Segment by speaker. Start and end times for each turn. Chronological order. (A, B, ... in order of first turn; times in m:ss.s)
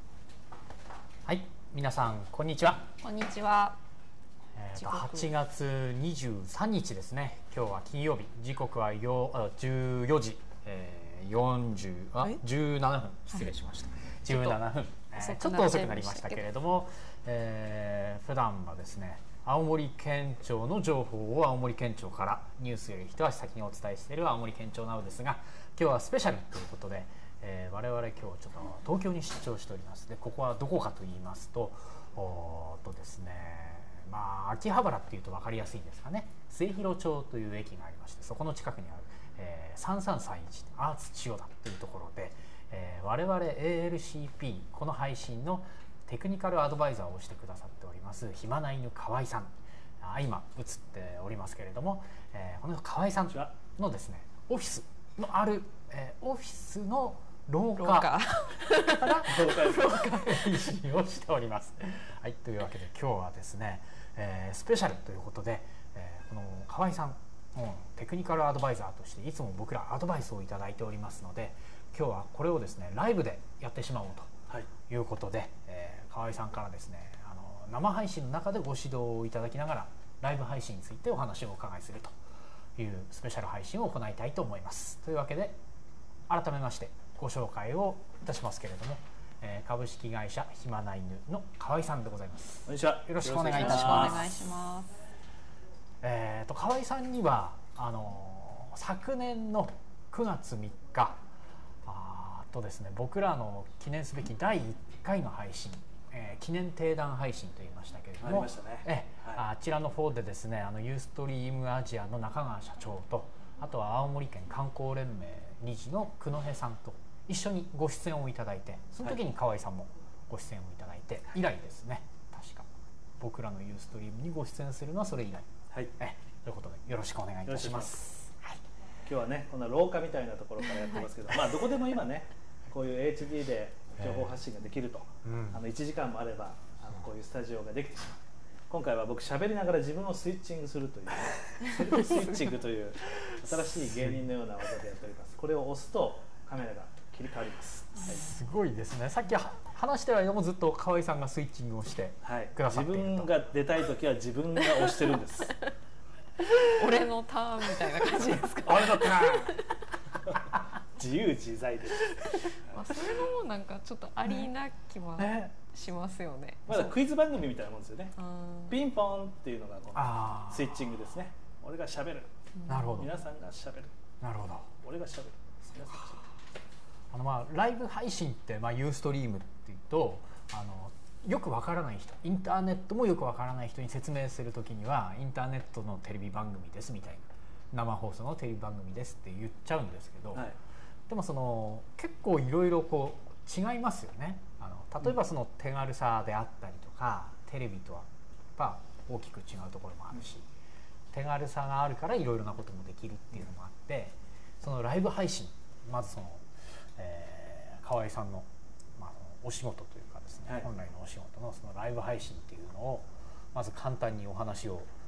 0:01.2-0:02.9 A
0:03.0-0:03.8 B
0:04.5-0:49.5 A
0:04.8-0:05.3 B
0:14.3-0:14.6 B
0:15.2-0:16.4 B
0:50.0-1:14.3 A
0:57.8-1:00.6 B
0:59.3-0:59.9 C
1:14.9-1:22.2 A
1:22.8-1:25.6 A
1:26.3-1:34.4 A
1:32.6-1:34.3 C
1:33.4-1:34.9 B
1:36.0-1:41.2 A
1:41.8-2:02.7 A
1:48.2-1:49.4 C
2:03.2-2:08.6 A
2:07.4-2:08.0 C
2:09.0-2:28.2 C
2:14.0-2:14.3 A
2:15.2-2:15.6 A
2:23.8-2:24.1 A
2:28.0-2:33.3 A
2:32.2-2:35.6 C
2:36.4-2:39.8 B
2:38.6-2:39.6 C
2:40.2-2:43.0 C
2:42.5-2:46.9 B
2:46.7-2:48.1 C
2:48.2-2:48.8 B
2:48.6-2:52.3 C
2:49.9-2:50.8 A
2:52.6-2:53.0 B
2:52.7-2:53.1 A
2:52.9-2:53.9 C
2:54.2-2:54.7 A
2:54.8-2:56.2 C
2:57.1-3:10.5 A
3:11.1-3:20.5 A
3:21.1-3:34.9 A